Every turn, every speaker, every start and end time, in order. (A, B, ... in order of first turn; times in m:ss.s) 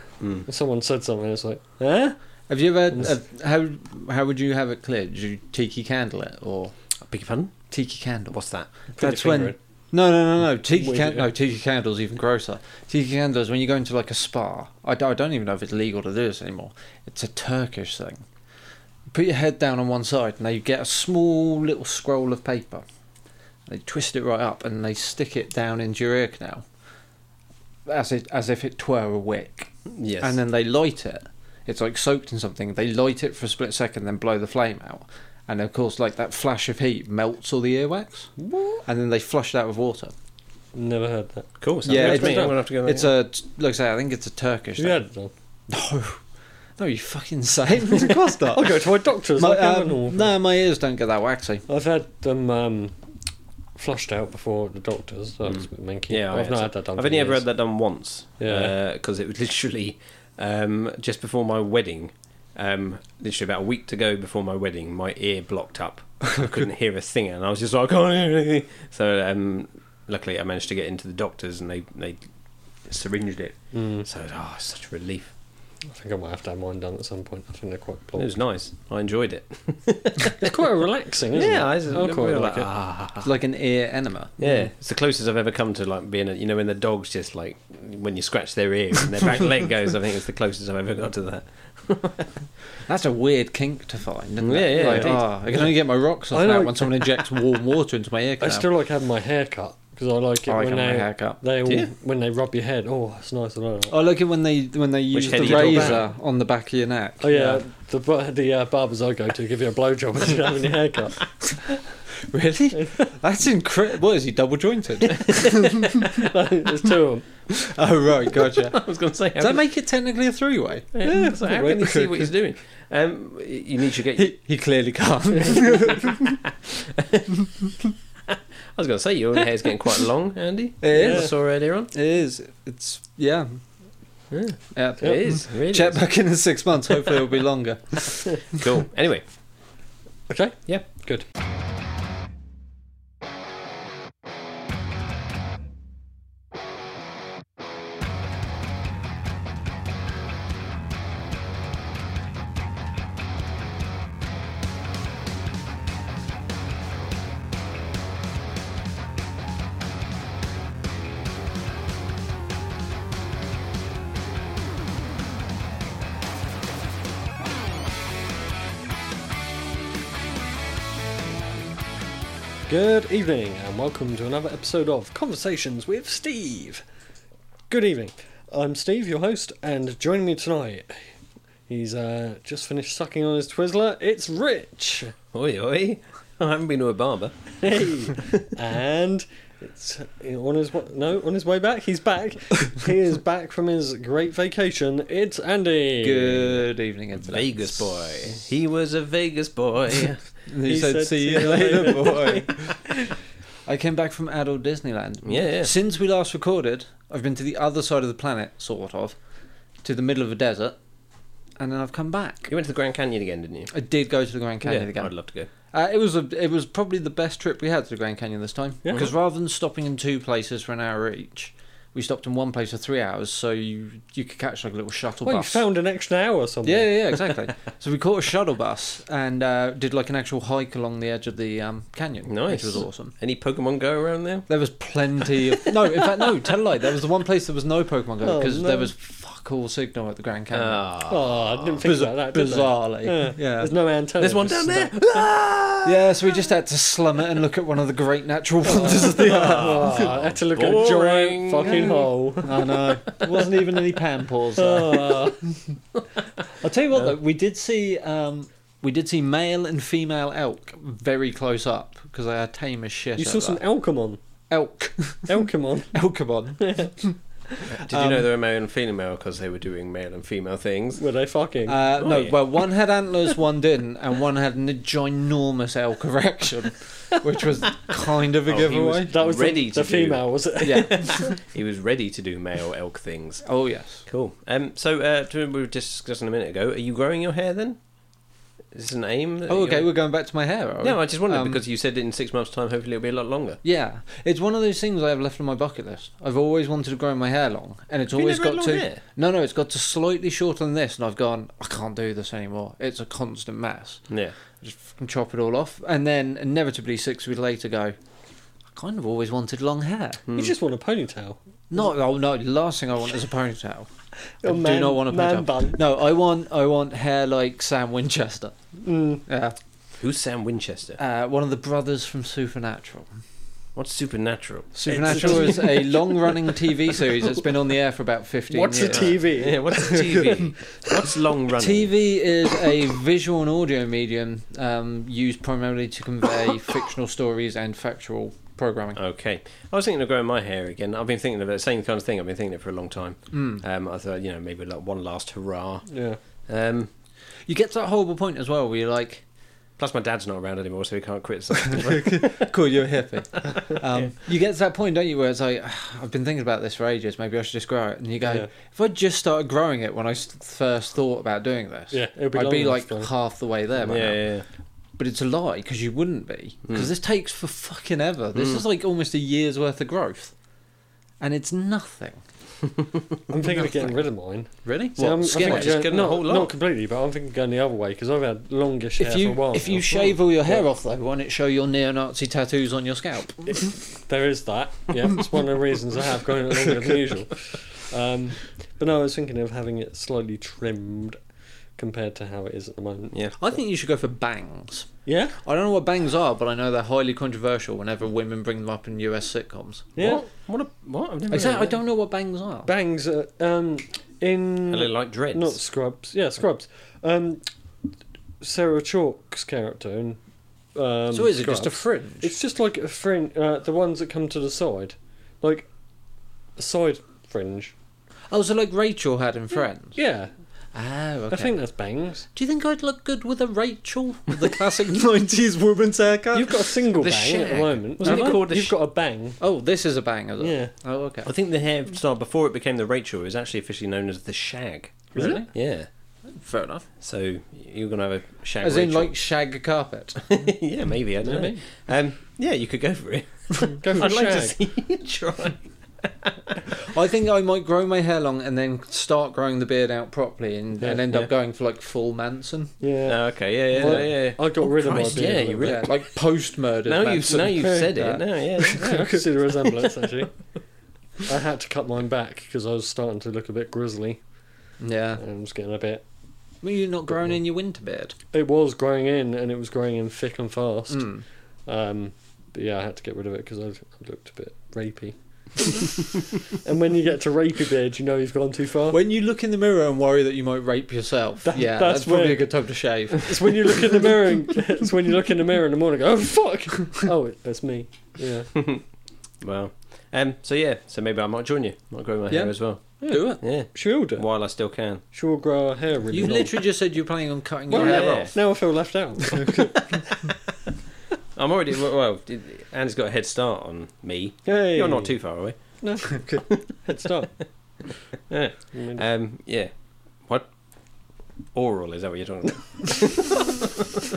0:00.2-0:00.4 A
0:00.4-0:02.2 B
0:02.5-0:06.7 C
0:07.1-0:07.5 A
0:07.7-0:08.4 C
0:08.3-0:08.7 A
0:08.9-0:09.6 B
0:09.0-0:18.2 C
0:10.8-0:11.2 B
0:19.1-0:22.8 C
0:23.7-0:26.6 C
0:27.8-0:29.7 C
0:29.9-0:30.4 A
0:30.2-0:38.3 C
0:38.4-0:38.8 B
0:38.8-0:40.1 C
0:40.7-0:42.6 B
0:41.6-0:43.1 A
0:41.8-0:45.0 C
0:44.8-0:45.3 B
0:45.7-0:46.2 C
0:46.8-0:51.6 C
0:48.5-0:50.3 B
0:51.7-0:53.0 B
0:53.7-0:57.4 B
0:55.5-1:12.2 A
0:58.4-0:58.7 B
1:06.3-1:06.6 C
1:12.9-1:15.3 A
1:13.7-1:14.1 B
1:15.8-1:18.3 B
1:18.2-1:20.6 A
1:20.4-1:22.7 B
1:21.3-1:23.3 A
1:23.2-1:24.7 C
1:24.4-1:32.4 A
1:32.8-1:38.7 C
1:34.4-1:35.3 A
1:34.8-1:35.7 B
1:36.3-1:37.6 B
1:38.4-1:44.0 B
1:40.4-1:41.4 C
1:41.6-1:41.9 A
1:43.9-1:47.3 C
1:45.1-1:46.1 A
1:45.3-1:46.0 B
1:47.2-1:51.3 B
1:47.3-1:47.6 A
1:52.2-1:56.0 C
1:52.7-1:53.1 B
1:55.2-1:56.2 A
1:55.8-1:57.3 B
1:57.5-1:58.8 C
1:58.4-1:59.6 A
1:59.4-2:00.9 C
2:00.9-2:04.3 A
2:01.0-2:02.1 B
2:01.7-2:02.1 C
2:04.1-2:06.4 C
2:06.2-2:07.3 A
2:08.3-2:11.9 A
2:10.8-2:13.6 C
2:11.0-2:11.3 B
2:14.3-2:16.0 A
2:14.7-2:18.6 C
2:18.5-2:19.2 A
2:20.3-2:21.2 B
2:52.7-2:56.8 B
2:57.7-3:01.1 B
3:01.7-3:05.1 B
3:05.3-3:07.5 A
3:07.6-3:16.6 B
3:16.0-3:18.1 C
3:17.2-3:20.3 A
3:20.5-3:22.8 C
3:20.6-3:22.8 B
3:23.6-3:29.2 C
3:25.2-3:25.7 A
3:29.8-3:30.8 C
3:31.6-3:32.5 C
3:32.5-3:33.7 A
3:33.7-3:35.1 C
3:34.6-3:35.5 A
3:35.7-3:45.6 C
3:38.8-3:39.1 B
3:45.2-3:46.9 B
3:46.6-3:53.1 C
3:52.3-3:54.5 A
3:54.5-4:00.9 C
3:58.2-3:58.9 B
4:00.5-4:01.8 A
4:01.1-4:05.2 B
4:01.8-4:03.7 C
4:04.2-4:06.3 A
4:05.8-4:10.1 C
4:08.7-4:12.9 B
4:08.7-4:13.4 A
4:11.6-4:15.4 C
4:14.6-4:15.4 B
4:16.6-4:23.6 C
4:23.2-4:24.2 B
4:24.5-4:27.2 C
4:25.3-4:26.0 B
4:26.6-4:26.9 B
4:27.6-4:31.0 A
4:27.7-4:28.3 C
4:31.0-4:31.8 B
4:31.6-4:39.1 C
4:32.0-4:32.5 A
4:38.4-4:43.4 A
4:39.1-4:41.3 B
4:40.6-4:41.3 C
4:43.4-4:44.0 C
4:44.0-4:47.8 A
4:48.7-4:49.9 A
4:49.5-4:51.6 C
4:50.8-4:53.6 A
4:53.6-5:07.9 C
4:58.1-4:59.0 A
5:04.1-5:04.3 A
5:08.7-5:10.2 C
5:10.3-5:10.5 A
5:10.3-5:11.4 B
5:11.7-5:13.9 C
5:14.4-5:15.9 B
5:14.4-5:18.5 C
5:18.8-5:19.2 B
5:19.3-5:19.6 C
5:20.0-5:21.0 A
5:21.0-5:23.1 C
5:23.8-5:25.2 A
5:24.7-5:30.9 C
5:24.9-5:26.5 B
5:28.5-5:29.7 B
5:28.8-5:31.9 A
5:31.6-5:39.0 C
5:39.0-5:45.9 A
5:43.3-5:43.6 C
5:45.9-5:46.2 B
5:46.4-5:46.9 A
5:47.5-5:49.2 C
5:49.8-5:52.5 A
5:51.7-6:04.3 C
5:53.5-5:54.1 A
6:01.9-6:03.1 B
6:03.8-6:04.4 A
6:05.0-6:10.3 C
6:08.3-6:08.6 A
6:11.2-6:12.2 C
6:13.3-6:20.6 B
6:13.3-6:14.0 C
6:14.6-6:15.8 C
6:15.0-6:16.5 A
6:19.0-6:23.7 C
6:23.4-6:31.2 B
6:31.8-6:33.1 B
6:33.4-6:34.9 C
6:35.0-6:35.4 B
6:35.4-6:39.9 C
6:40.0-6:40.2 B
6:40.0-6:41.8 A
6:41.3-6:42.7 C
6:42.6-6:47.4 B
6:44.7-6:45.6 A
6:48.4-6:50.2 B
6:50.7-6:55.7 B
6:51.1-6:52.3 C
6:56.6-6:57.7 B
6:58.3-7:00.0 C
6:59.9-7:00.3 B
7:00.7-7:01.5 C
7:01.3-7:02.2 B
7:02.3-7:06.8 C
7:06.3-7:09.4 B
7:06.9-7:08.7 A
7:08.0-7:08.4 C
7:09.4-7:11.3 C
7:10.4-7:10.7 B
7:11.2-7:15.9 A
7:15.1-7:15.5 C
7:15.2-7:15.4 B
7:16.3-7:16.9 C
7:17.0-7:19.1 A
7:18.6-7:20.3 C
7:20.2-7:26.6 A
7:21.2-7:21.6 B
7:23.6-7:24.6 B
7:26.8-7:32.7 C
7:30.8-7:31.3 B
7:32.8-7:35.8 B
7:33.0-7:35.9 A
7:33.8-7:34.0 C
7:35.6-7:39.2 C
7:36.8-7:39.0 A
7:38.7-7:40.3 B
7:41.2-7:44.2 B
7:44.8-7:45.2 C
7:45.2-7:46.0 B
7:46.6-7:48.1 C
7:48.3-7:51.1 B
7:50.9-7:51.2 C
7:51.6-7:55.9 B
7:56.4-7:59.0 B
7:58.9-8:04.1 C
8:01.4-8:02.6 B
8:03.1-8:08.5 B
8:08.5-8:08.8 A
8:09.4-8:15.0 A
8:12.3-8:13.4 C
8:13.0-8:14.2 B
8:15.1-8:16.5 B
8:16.1-8:18.4 C
8:17.7-8:20.0 B
8:17.7-8:18.3 A
8:21.4-8:25.6 A
8:24.4-8:25.2 B
8:25.8-8:27.3 B
8:26.0-8:26.4 C
8:28.3-8:29.7 A
8:28.7-8:29.0 B
8:30.2-8:30.5 A
8:31.5-8:34.0 A